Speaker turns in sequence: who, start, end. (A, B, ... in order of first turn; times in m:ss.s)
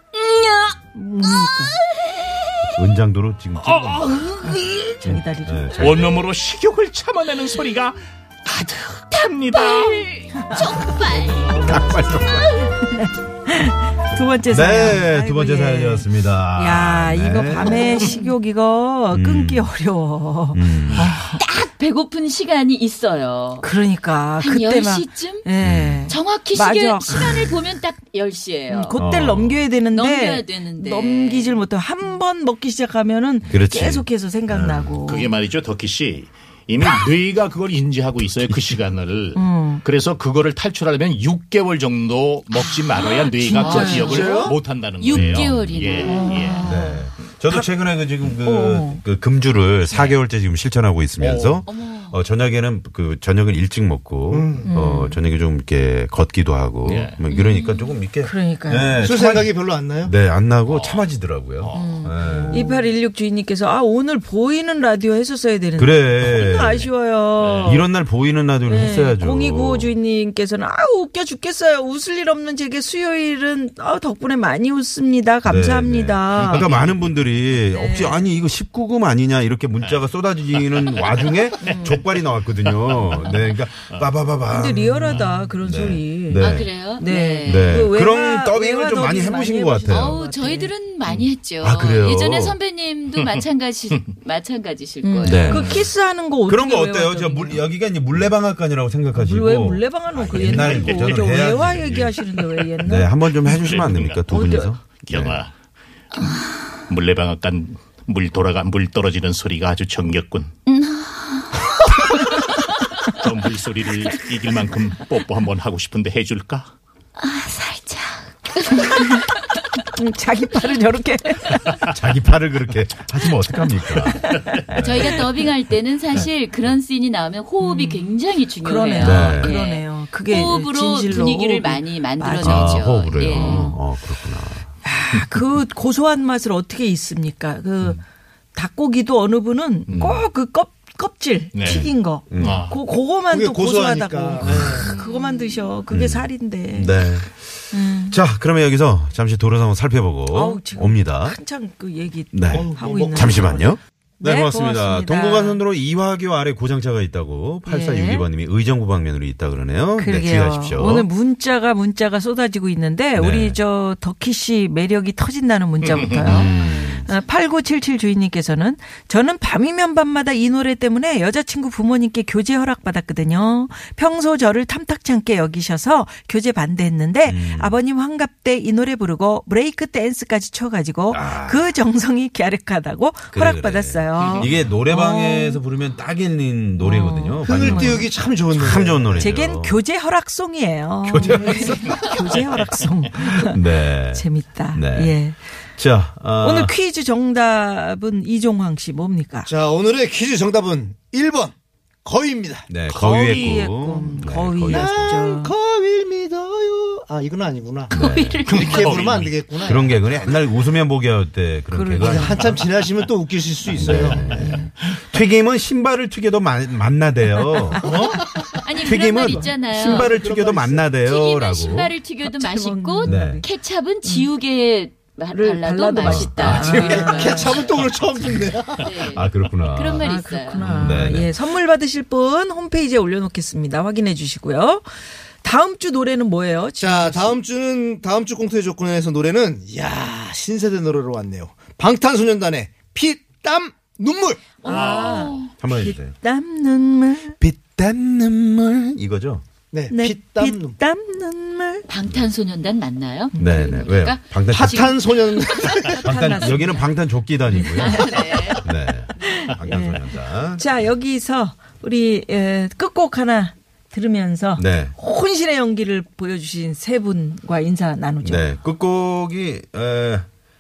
0:00.1-0:00.8 A
0:00.9-0:01.8 B
0:01.3-0:02.7 A
0:02.8-0:04.1 C
0:03.6-0:04.8 D
0:04.4-0:06.0 B
0:05.0-0:06.2 C
0:05.8-0:10.2 D
0:09.5-0:12.7 A
0:11.6-0:12.4 C
0:12.7-0:20.7 B
0:14.5-0:18.1 C
0:19.1-0:19.7 C
0:20.5-0:21.2 C
0:21.0-0:21.4 D
0:21.4-0:23.7 A
0:23.6-0:27.5 B
0:24.4-0:25.5 A
0:25.6-0:26.1 C
0:26.1-0:29.0 A
0:28.7-0:35.4 B
0:28.9-0:29.7 C
0:29.9-0:31.6 A
0:33.5-0:35.0 C
0:35.0-0:46.6 D
0:39.3-0:39.8 B
0:42.7-0:47.0 A
0:43.6-0:44.4 B
0:44.0-0:44.6 E
0:45.1-0:45.7 C
0:46.6-1:02.7 C
0:48.4-0:49.0 B
0:51.2-0:51.6 D
0:51.7-0:52.2 A
0:54.3-0:54.7 E
0:54.7-0:55.2 B
0:56.8-0:57.2 D
0:57.3-0:57.9 A
0:58.2-0:59.1 B
0:59.0-1:00.1 E
1:00.6-1:01.1 D
1:01.6-1:01.9 D
1:01.7-1:07.9 B
1:02.3-1:02.8 E
1:05.8-1:06.9 C
1:07.4-1:07.7 D
1:07.6-1:10.0 C
1:08.7-1:16.7 B
1:15.4-1:26.7 C
1:16.4-1:17.0 D
1:17.7-1:18.3 B
1:20.6-1:22.0 D
1:21.6-1:22.0 B
1:22.6-1:23.3 D
1:24.5-1:30.7 B
1:26.4-1:27.8 A
1:27.4-1:30.2 C
1:29.9-1:35.6 A
1:31.6-1:32.6 C
1:33.2-1:34.0 D
1:35.0-1:37.6 B
1:35.2-1:35.9 C
1:36.5-1:42.2 C
1:39.1-1:43.2 B
1:40.3-1:41.5 D
1:42.8-1:45.4 C
1:43.5-1:44.2 D
1:44.3-1:44.8 B
1:45.0-1:45.5 D
1:46.9-1:50.5 D
1:50.7-1:51.7 A
1:53.0-1:56.7 D
1:57.2-1:59.5 A
1:59.9-2:01.9 B
2:01.8-2:05.1 C
2:03.8-2:04.6 B
2:04.8-2:13.8 A
2:07.6-2:08.0 B
2:08.6-2:13.7 B
2:09.0-2:09.6 C
2:12.4-2:14.7 C
2:14.8-2:18.0 B
2:18.5-2:27.1 B
2:19.9-2:20.3 C
2:21.5-2:22.8 D
2:22.3-2:22.6 C
2:23.3-2:24.9 E
2:24.4-2:24.9 C
2:25.0-2:25.7 A
2:25.9-2:31.4 C
2:27.7-2:28.2 B
2:30.3-2:35.6 B
2:32.3-2:41.1 C
2:32.5-2:33.7 E
2:37.6-2:38.3 B
2:40.0-3:05.6 B
2:43.2-2:43.6 C
2:45.8-2:46.3 D
2:46.0-2:47.1 C
2:57.2-2:57.8 C
3:01.1-3:01.7 C
3:03.3-3:09.8 C
3:04.2-3:04.5 D
3:06.8-3:08.1 B
3:07.4-3:09.2 E
3:09.2-3:15.5 B
3:11.0-3:12.6 C
3:13.2-3:16.8 C
3:16.4-3:19.5 B
3:19.5-3:21.5 E
3:22.0-3:22.7 E
3:22.7-3:25.2 C
3:22.9-3:23.5 D
3:23.0-3:25.5 B
3:24.7-3:28.0 E
3:27.9-3:29.0 A
3:27.9-3:28.6 C
3:28.5-3:29.4 D
3:28.5-3:30.4 E
3:29.6-3:32.6 C
3:31.7-3:32.6 B
3:32.0-3:34.6 E
3:33.8-3:38.2 C
3:33.8-3:34.7 B
3:37.4-3:38.2 B
3:37.9-3:38.7 E
3:38.6-3:40.1 A
3:38.8-3:41.9 C
3:39.0-3:39.5 B
3:39.9-3:41.0 E
3:41.0-3:47.8 A
3:42.2-3:43.5 B
3:43.0-3:43.4 C
3:44.0-3:44.3 B
3:45.3-3:47.6 B
3:46.0-3:47.2 C
3:46.7-3:49.1 E
3:48.8-3:50.7 A
3:49.0-3:50.1 C
3:50.0-3:54.9 B
3:50.6-3:51.3 C
3:55.4-3:57.4 B
3:56.8-4:04.8 E
4:04.6-4:05.5 A
4:04.6-4:07.4 B
4:04.9-4:06.2 C
4:07.4-4:09.4 C
4:09.7-4:10.8 E
4:09.9-4:11.9 B
4:11.9-4:16.8 A
4:13.4-4:15.1 C
4:14.5-4:16.0 E
4:15.8-4:16.9 B
4:15.9-4:20.7 C
4:17.5-4:18.6 B
4:17.8-4:18.7 A
4:19.2-4:28.5 B
4:24.6-4:24.9 C
4:28.2-4:30.3 C